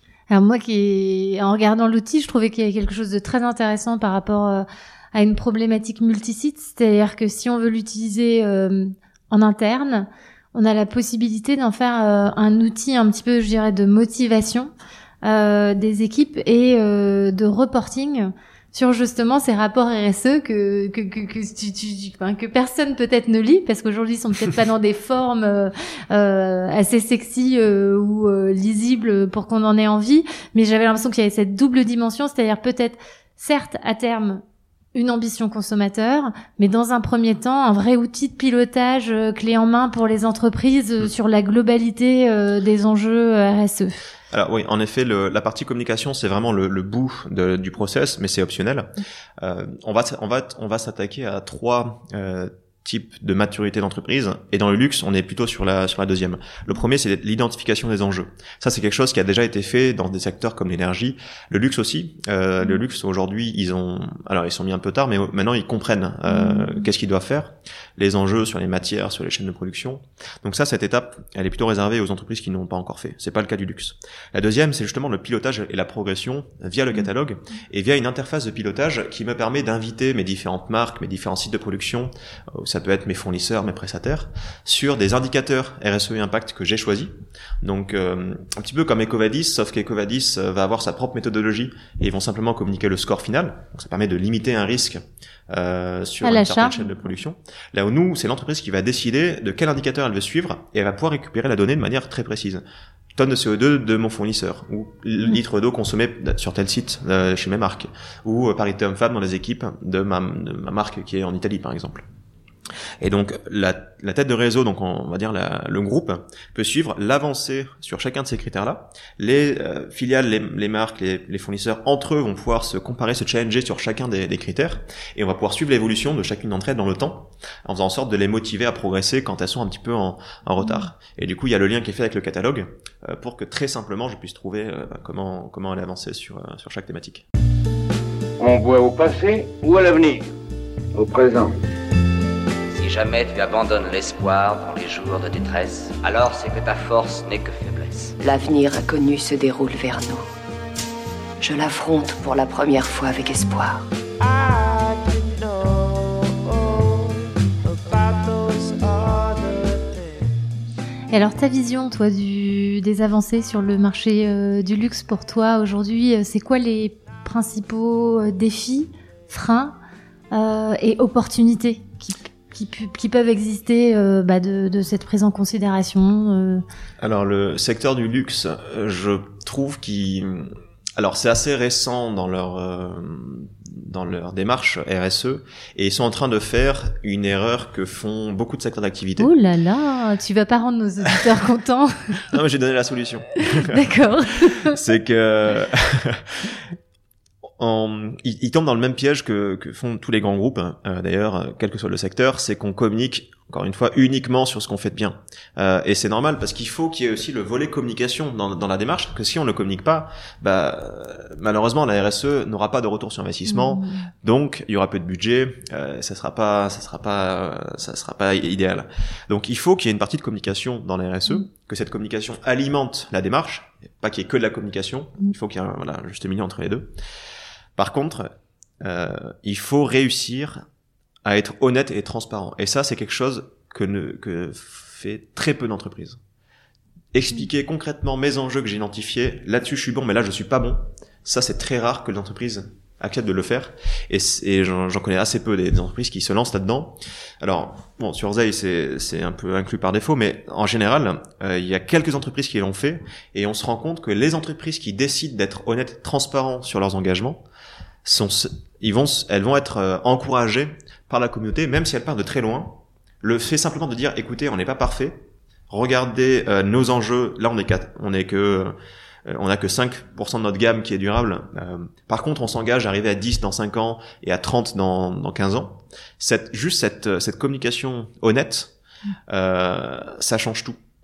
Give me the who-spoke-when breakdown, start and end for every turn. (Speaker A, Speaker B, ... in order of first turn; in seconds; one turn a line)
Speaker A: 0.3-14.7
Speaker A: 15.2-34.4
Speaker A: 34.9-44.0
Speaker B: 44.3-102.6
Speaker A: 66.3-66.8
Speaker A: 96.2-96.8
Speaker B: 103.1-112.0
Speaker B: 113.0-137.2
Speaker A: 130.6-130.9
Speaker C: 138.4-140.3
Speaker C: 140.9-141.5
Speaker D: 142.7-148.2
Speaker E: 148.2-150.2
Speaker E: 151.4-153.8
Speaker A: 161.1-169.7
Speaker A: 170.3-176.6
Speaker B: 177.0-189.3
Speaker A: 189.2-192.2
Speaker B: 192.3-193.8
Speaker A: 193.5-194.8
Speaker B: 194.5-196.6
Speaker B: 197.6-226.9
Speaker A: 213.5-214.1
Speaker B: 227.8-230.6
Speaker B: 231.2-236.2
Speaker B: 237.1-257.4
Speaker B: 258.0-268.7
Speaker B: 269.2-278.7
Speaker B: 279.3-280.8